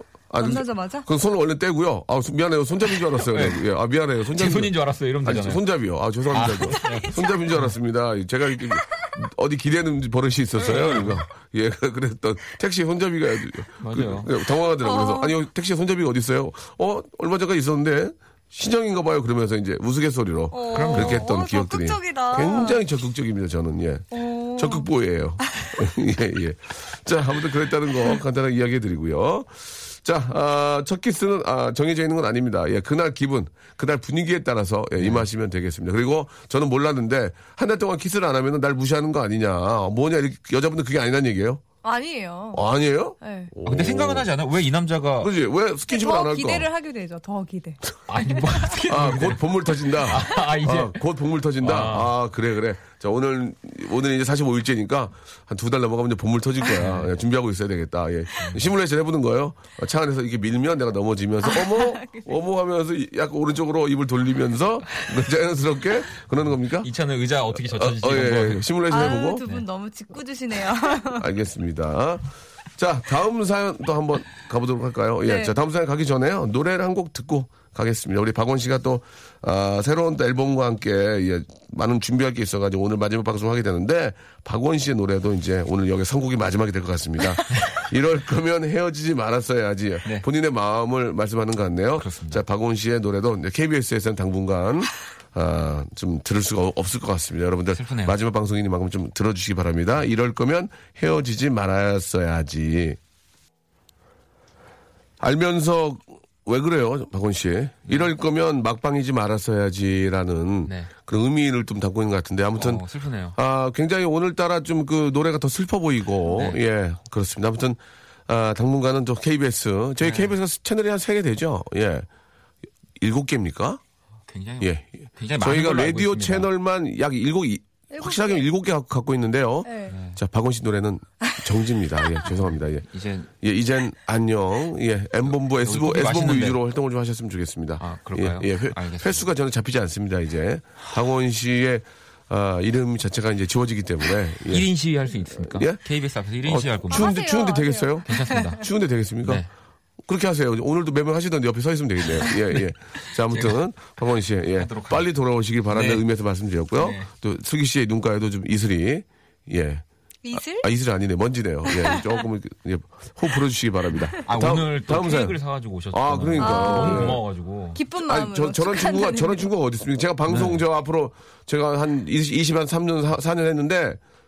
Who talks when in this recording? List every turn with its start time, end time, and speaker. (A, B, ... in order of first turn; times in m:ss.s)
0:00.3-0:41.6 A
0:00.4-0:01.1 B
0:03.2-0:03.6 C
0:04.3-0:05.6 C
0:06.3-0:07.7 C
0:06.7-0:07.4 B
0:10.6-0:11.2 C
0:13.8-0:14.3 C
0:14.8-0:15.3 B
0:20.5-0:22.8 B
0:20.7-0:21.3 C
0:24.1-0:24.9 B
0:35.0-0:35.2 C
0:41.8-0:42.6 B
0:42.5-0:44.3 A
0:43.2-0:43.5 B
0:43.6-0:45.3 C
0:45.2-0:46.7 A
0:45.9-0:47.8 B
0:48.1-0:51.0 C
0:48.9-1:06.9 A
0:51.6-0:52.2 C
0:56.8-0:57.1 C
0:58.4-0:58.7 C
1:01.4-1:02.3 B
1:06.8-1:09.6 C
1:07.5-1:09.4 A
1:08.9-1:11.2 B
1:11.2-1:12.3 A
1:12.8-1:43.0 A
1:15.3-1:15.6 B
1:32.0-1:32.4 C
1:37.7-1:38.2 C
1:45.2-1:52.8 A
1:50.7-1:50.9 C
1:52.6-1:53.4 C
1:53.4-2:02.1 A
1:56.3-1:56.6 C
2:00.0-2:00.3 C
2:03.0-2:03.8 A
2:04.3-2:06.5 C
2:04.6-2:04.9 A
2:05.4-2:12.9 A
2:07.9-2:08.4 B
2:09.6-2:09.9 B
2:09.9-2:10.2 C
2:12.9-2:13.3 C
2:13.4-2:24.7 A
2:15.5-2:16.6 C
2:17.8-2:19.3 C
2:24.5-2:27.2 C
2:25.4-2:25.8 A
2:26.4-2:29.4 A
2:26.9-2:28.6 B
2:28.1-2:28.6 C
2:30.1-2:45.4 A
2:33.3-2:33.8 C
2:34.6-2:35.1 C
2:35.7-2:36.0 C
2:36.8-2:37.1 C
2:40.2-2:40.7 B
2:41.7-2:42.2 B
2:44.2-2:47.8 C
2:45.9-2:47.2 A
2:46.4-2:47.2 B
2:47.7-2:49.5 B
2:48.1-2:54.0 A
2:50.3-2:50.6 C